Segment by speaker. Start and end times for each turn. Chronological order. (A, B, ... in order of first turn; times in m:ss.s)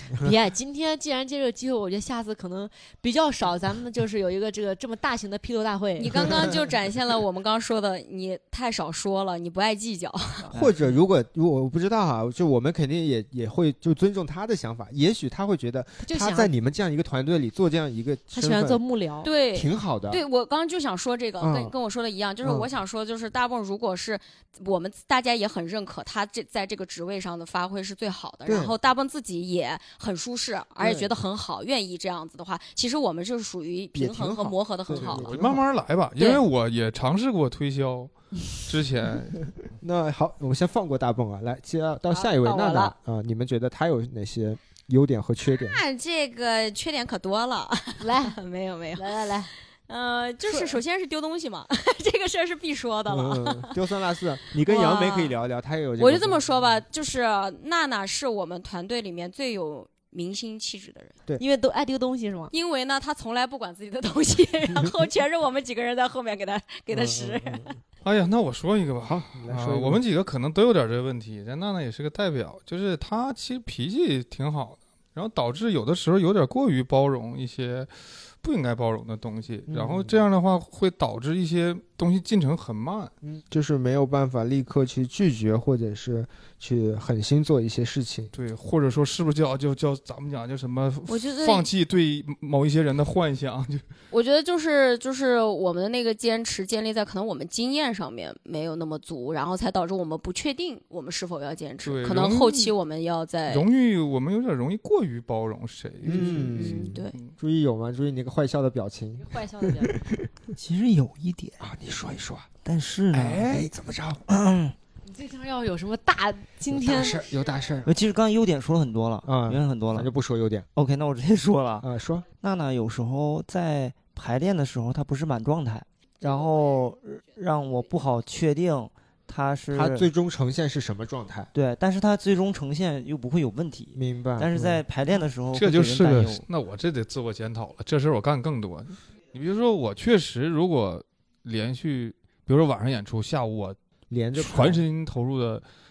0:00.2-0:06.5 A
0:06.0-0:10.5 B
0:10.5-0:10.8 C
0:10.5-0:18.8 D
0:16.0-0:16.5 A
0:18.3-0:19.3 A
0:19.2-0:35.3 B
0:19.5-0:20.2 D
0:21.4-0:21.7 D
0:22.4-0:22.7 D
0:28.4-0:28.7 D
0:30.8-0:31.1 D
0:33.9-0:35.6 D
0:34.9-0:39.5 E
0:36.2-0:36.4 B
0:39.8-0:45.8 D
0:42.1-0:42.9 B
0:45.5-0:53.9 B
0:48.0-0:48.4 A
0:49.0-0:49.5 A
0:50.5-0:50.7 A
0:53.1-0:56.7 D
0:54.6-0:55.3 B
0:56.0-1:01.2 B
1:01.4-1:02.5 A
1:02.5-1:07.8 B
1:06.9-1:07.7 D
1:08.0-1:17.9 E
1:09.0-1:10.0 D
1:18.4-1:23.1 E
1:19.7-1:20.2 D
1:23.2-1:28.3 D
1:28.3-1:33.8 E
1:31.1-1:31.7 B
1:34.1-1:43.6 B
1:41.8-1:42.7 E
1:43.5-1:47.3 E
1:46.0-1:50.3 D
1:46.1-1:47.2 B
1:49.2-1:50.0 A
1:50.6-1:51.6 C
1:51.6-1:52.5 D
1:52.6-1:53.7 C
1:53.1-1:54.2 D
1:54.3-1:54.7 C
1:55.0-1:57.2 A
1:56.7-1:57.9 D
1:57.8-2:00.1 C
1:59.2-2:00.7 D
2:00.8-2:01.9 C
2:01.8-2:02.2 D
2:02.4-2:10.1 C
2:09.7-2:11.5 D
2:11.5-2:16.4 C
2:13.9-2:14.8 D
2:15.5-2:23.8 E
2:24.1-2:24.8 D
2:24.3-2:25.6 E